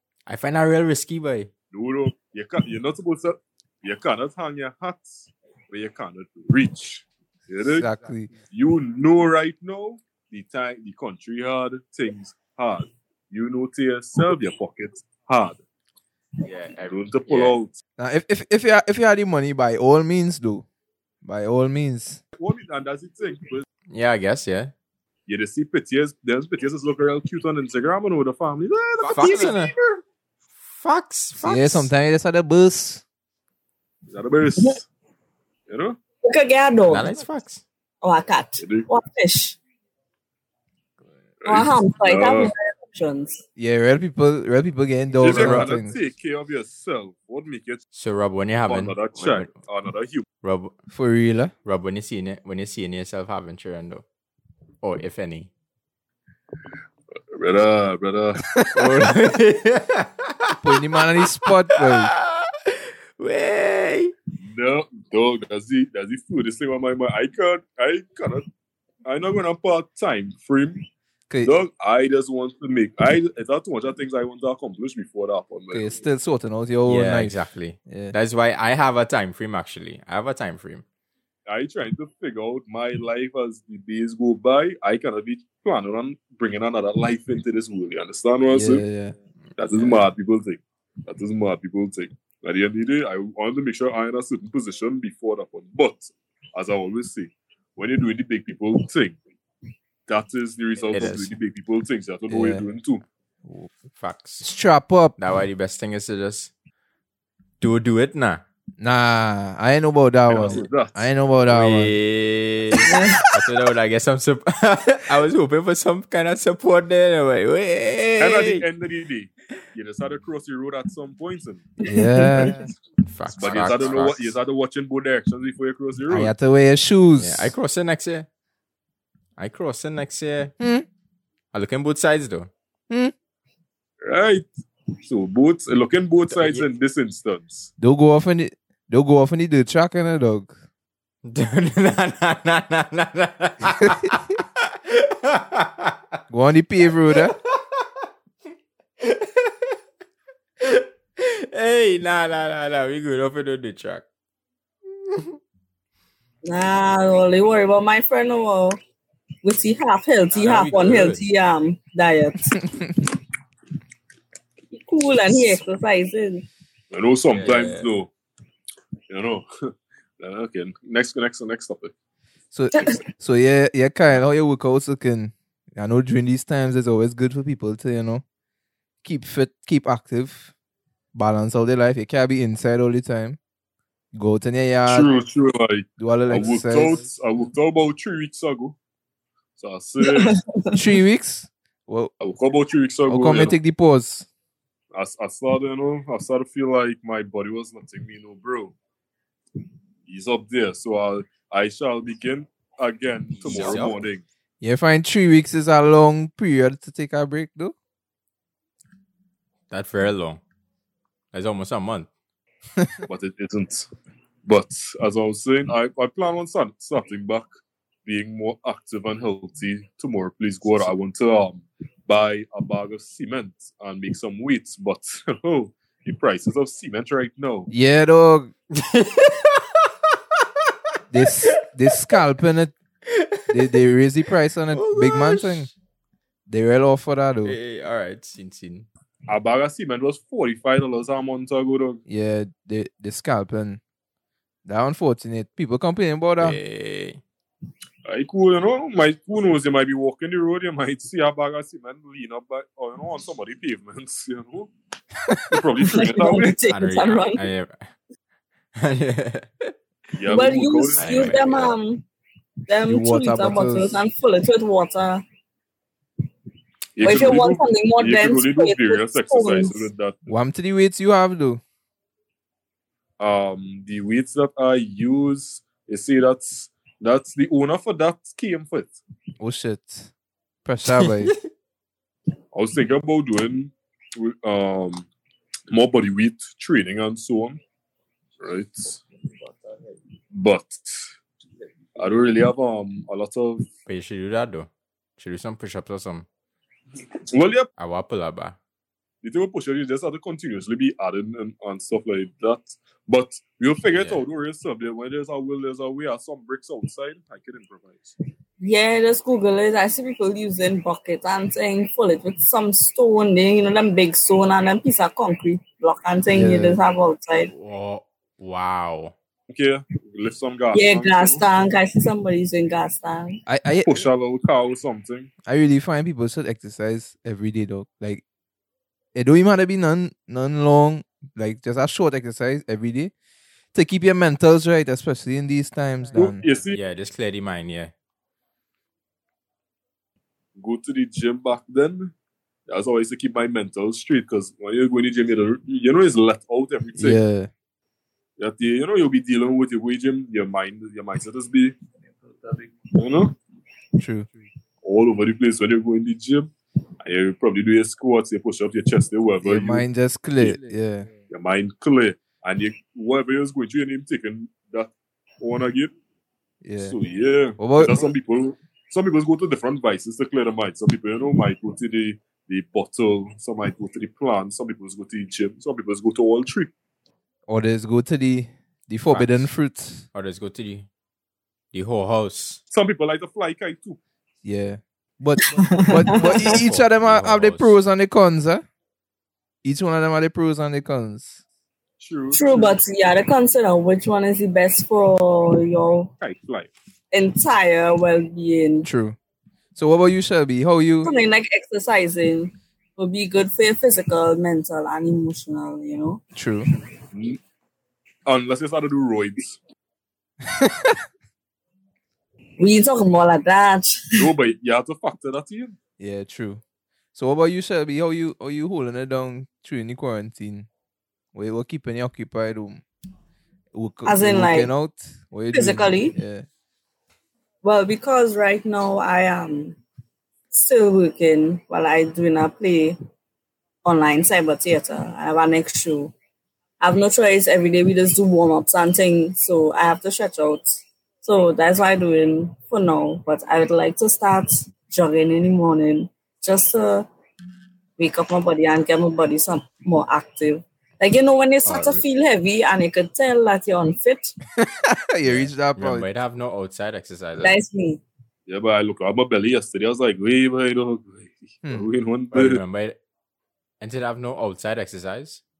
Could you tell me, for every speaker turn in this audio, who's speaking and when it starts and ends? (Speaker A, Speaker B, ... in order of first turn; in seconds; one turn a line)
Speaker A: 0.2-1.5
Speaker B: 1.7-7.9
Speaker C: 7.7-8.3
Speaker B: 8.5-15.6
Speaker D: 16.4-17.6
Speaker B: 16.8-17.8
Speaker C: 18.0-20.6
Speaker C: 21.2-22.2
Speaker B: 22.4-23.7
Speaker A: 23.9-24.7
Speaker B: 25.3-30.0
Speaker A: 29.0-29.7
Speaker A: 30.6-31.9
Speaker C: 31.4-33.0
Speaker B: 34.1-34.9
Speaker B: 35.7-36.0
Speaker E: 36.2-37.1
Speaker A: 36.9-37.6
Speaker E: 38.0-39.6
Speaker B: 38.6-38.9
Speaker B: 41.4-42.5
Speaker E: 41.5-43.4
Speaker C: 43.6-46.0
Speaker B: 45.2-47.8
Speaker A: 45.3-45.7
Speaker A: 47.9-49.5
Speaker B: 48.7-50.2
Speaker A: 50.4-50.7
Speaker C: 50.9-51.5
Speaker A: 51.6-54.0
Speaker A: 54.8-55.5
Speaker B: 57.3-58.4
Speaker A: 58.7-60.8
Speaker C: 60.6-62.1
Speaker A: 61.7-64.1
Speaker B: 64.4-68.4
Speaker B: 69.0-70.8
Speaker C: 71.3-71.5
Speaker B: 71.4-76.0
Speaker C: 75.7-78.1
Speaker A: 76.8-80.8
Speaker B: 81.5-88.8
Speaker C: 88.5-89.1
Speaker B: 89.6-99.2
Speaker B: 100.1-103.0
Speaker A: 100.9-101.3
Speaker C: 102.3-102.6
Speaker A: 103.9-104.4
Speaker C: 104.4-105.2
Speaker A: 105.2-106.5
Speaker A: 107.6-108.4
Speaker C: 108.8-112.0
Speaker B: 110.3-111.1
Speaker A: 111.5-118.6
Speaker E: 112.9-113.2
Speaker B: 118.2-121.7
Speaker C: 121.8-122.7
Speaker E: 121.9-122.5
Speaker A: 123.0-124.3
Speaker B: 123.3-126.3
Speaker D: 123.5-124.0
Speaker C: 126.1-127.5
Speaker A: 127.2-128.3
Speaker A: 129.4-130.5
Speaker C: 130.6-130.8
Speaker A: 131.5-132.5
Speaker B: 134.0-134.5
Speaker B: 135.0-137.7
Speaker A: 136.3-136.6
Speaker C: 137.8-140.5
Speaker A: 141.2-146.0
Speaker C: 146.3-147.3
Speaker A: 147.1-147.9
Speaker A: 149.0-149.8
Speaker A: 150.6-154.0
Speaker E: 156.4-158.8
Speaker E: 159.4-162.8
Speaker A: 160.3-161.2
Speaker E: 164.7-166.4
Speaker B: 166.9-168.1
Speaker A: 167.3-167.9
Speaker B: 169.1-169.4
Speaker B: 170.2-171.9
Speaker C: 172.5-178.2
Speaker C: 179.0-180.5
Speaker C: 181.1-183.4
Speaker C: 184.1-185.1
Speaker B: 184.9-188.8
Speaker C: 186.0-187.1
Speaker B: 189.6-190.3
Speaker E: 190.0-190.8
Speaker C: 190.7-192.1
Speaker B: 192.2-193.6
Speaker C: 193.1-194.3
Speaker B: 194.9-198.7
Speaker B: 200.1-204.2
Speaker D: 203.4-203.9
Speaker A: 203.4-204.0
Speaker C: 204.6-207.7
Speaker A: 209.7-210.4
Speaker A: 211.3-212.1
Speaker B: 213.1-213.9
Speaker B: 214.4-217.5
Speaker B: 218.0-227.7
Speaker C: 227.7-228.5
Speaker A: 228.7-229.9
Speaker C: 231.1-232.7
Speaker A: 233.0-233.8
Speaker C: 233.5-235.7
Speaker A: 234.7-235.7
Speaker C: 236.5-237.6
Speaker A: 237.4-238.9
Speaker B: 239.3-242.0
Speaker C: 242.1-243.8
Speaker C: 244.7-246.6
Speaker A: 246.4-247.2
Speaker B: 248.1-254.7
Speaker B: 255.5-256.6
Speaker E: 255.8-257.4
Speaker A: 256.7-257.9
Speaker A: 258.8-259.7
Speaker B: 260.1-261.4
Speaker E: 260.3-262.0
Speaker A: 261.0-261.8
Speaker E: 262.7-265.2
Speaker C: 262.9-264.0
Speaker B: 266.9-270.3
Speaker E: 267.0-269.9
Speaker C: 270.3-271.6
Speaker B: 273.2-279.0
Speaker C: 279.4-280.1
Speaker C: 280.6-281.4
Speaker A: 280.9-281.4
Speaker B: 282.5-285.1
Speaker B: 285.7-287.6
Speaker B: 288.4-289.0
Speaker B: 290.3-291.1
Speaker B: 291.9-293.7
Speaker A: 293.9-296.3
Speaker B: 297.3-297.7
Speaker A: 297.8-298.6
Speaker B: 299.2-308.1
Speaker A: 303.9-304.2
Speaker E: 308.6-317.5
Speaker C: 316.3-316.8
Speaker A: 317.5-319.1
Speaker B: 319.5-321.4
Speaker E: 320.7-323.4
Speaker C: 323.5-324.1
Speaker B: 323.9-325.3
Speaker C: 325.4-328.2
Speaker C: 329.1-333.1
Speaker C: 333.7-336.4
Speaker B: 336.1-336.8
Speaker A: 336.7-337.9
Speaker B: 340.6-342.1
Speaker B: 342.7-347.2
Speaker C: 347.0-347.5
Speaker B: 348.4-351.8
Speaker B: 352.8-353.4
Speaker C: 354.0-354.3
Speaker B: 354.8-356.5
Speaker B: 357.0-359.9
Speaker C: 359.4-361.1
Speaker B: 361.3-365.9
Speaker C: 366.6-366.9
Speaker B: 366.8-376.7
Speaker C: 367.6-368.1
Speaker C: 377.5-380.0
Speaker A: 379.1-379.5
Speaker A: 380.1-380.9
Speaker A: 381.7-382.6
Speaker B: 382.7-384.0
Speaker C: 384.4-388.6
Speaker E: 385.5-386.6
Speaker A: 386.1-387.8
Speaker C: 389.6-391.4
Speaker B: 392.0-392.8
Speaker E: 392.3-396.1
Speaker B: 396.2-396.7
Speaker E: 397.1-398.9
Speaker C: 398.8-399.2
Speaker C: 399.7-401.1
Speaker E: 401.0-406.2
Speaker C: 406.3-406.7
Speaker B: 408.2-409.6
Speaker C: 410.5-411.0
Speaker E: 412.6-414.1
Speaker B: 414.1-415.8
Speaker C: 416.0-416.6
Speaker C: 417.1-420.7
Speaker C: 421.3-422.8
Speaker C: 423.7-426.4
Speaker E: 424.0-424.7
Speaker E: 425.5-426.2
Speaker E: 427.6-429.8
Speaker E: 430.5-433.0
Speaker E: 433.8-436.1
Speaker E: 436.8-447.1
Speaker E: 448.0-454.4
Speaker A: 451.6-452.0
Speaker C: 454.8-456.1
Speaker A: 455.2-457.6
Speaker E: 457.4-458.0
Speaker B: 458.5-462.6
Speaker A: 462.3-463.0
Speaker A: 463.8-465.4